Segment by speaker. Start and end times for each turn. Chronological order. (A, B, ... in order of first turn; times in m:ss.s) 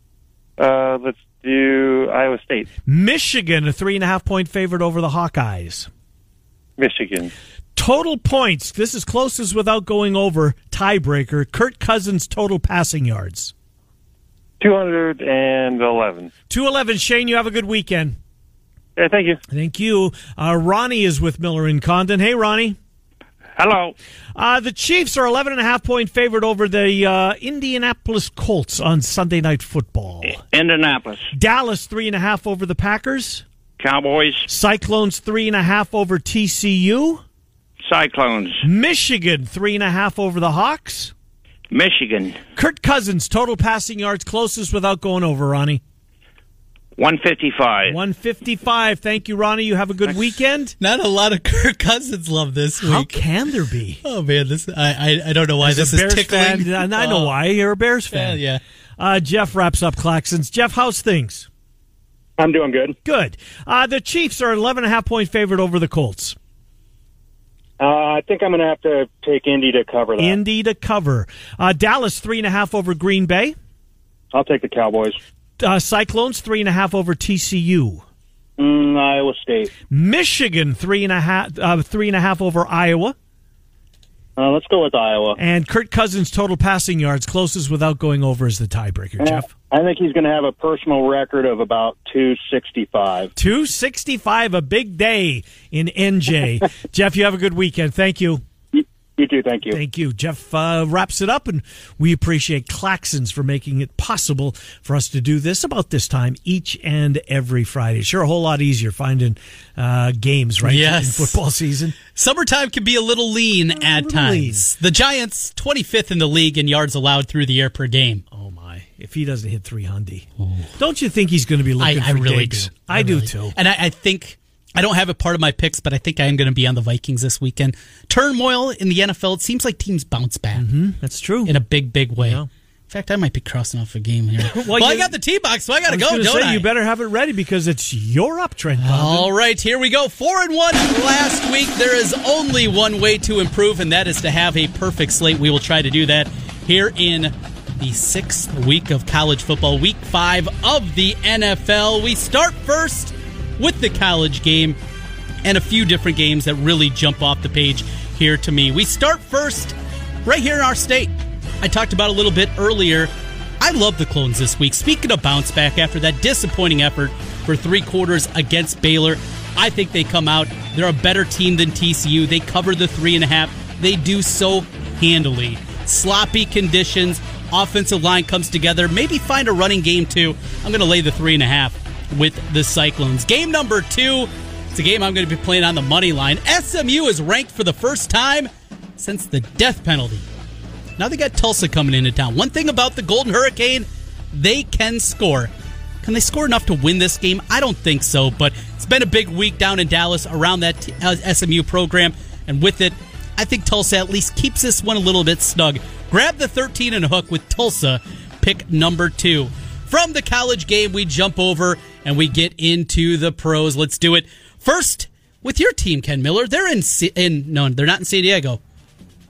0:00.6-0:02.7 A
0:02.9-0:05.9 B
0:06.8-0:07.3 A
0:07.8-0:13.5 B
0:14.6-0:16.3 A
0:16.5-0:18.2 B
0:19.0-0:19.4 A
0:19.5-0:22.8 B
0:23.6-0:23.9 A
0:24.4-0:30.4 B
0:30.2-0:31.3 C
0:31.3-0:33.4 B
0:33.8-0:34.5 C
0:34.5-0:37.2 B
0:37.9-0:38.6 C
0:38.6-0:41.1 B
0:41.7-0:42.4 C
0:42.6-0:45.8 B
0:47.0-0:48.0 C
0:47.8-0:50.8 B
0:50.8-0:53.2 D
0:52.8-0:54.0 B
0:54.0-0:57.4 D
0:55.6-0:58.4 B
0:58.1-0:58.6 D
0:59.0-1:01.5 B
1:02.4-1:03.0 E
1:03.0-1:06.4 B
1:07.8-1:10.4 E
1:10.2-1:13.6 B
1:14.3-1:15.2 E
1:15.6-1:18.0 B
1:18.6-1:19.7 E
1:19.9-1:23.2 B
1:24.4-1:25.4 E
1:25.4-1:29.5 B
1:29.2-1:33.3 E
1:33.4-1:38.4 B
1:38.7-1:39.8 E
1:39.7-1:52.0 B
1:50.6-1:51.4 D
1:52.2-1:58.2 D
1:53.8-1:54.6 B
1:58.3-2:03.6 B
2:00.4-2:00.7 D
2:01.8-2:10.7 D
2:10.6-2:11.6 B
2:11.5-2:16.7 D
2:12.2-2:12.5 B
2:14.4-2:15.1 B
2:15.9-2:19.3 B
2:18.8-2:34.8 D
2:35.4-3:10.3 D
3:11.0-3:15.5 D
3:16.0-3:38.6 D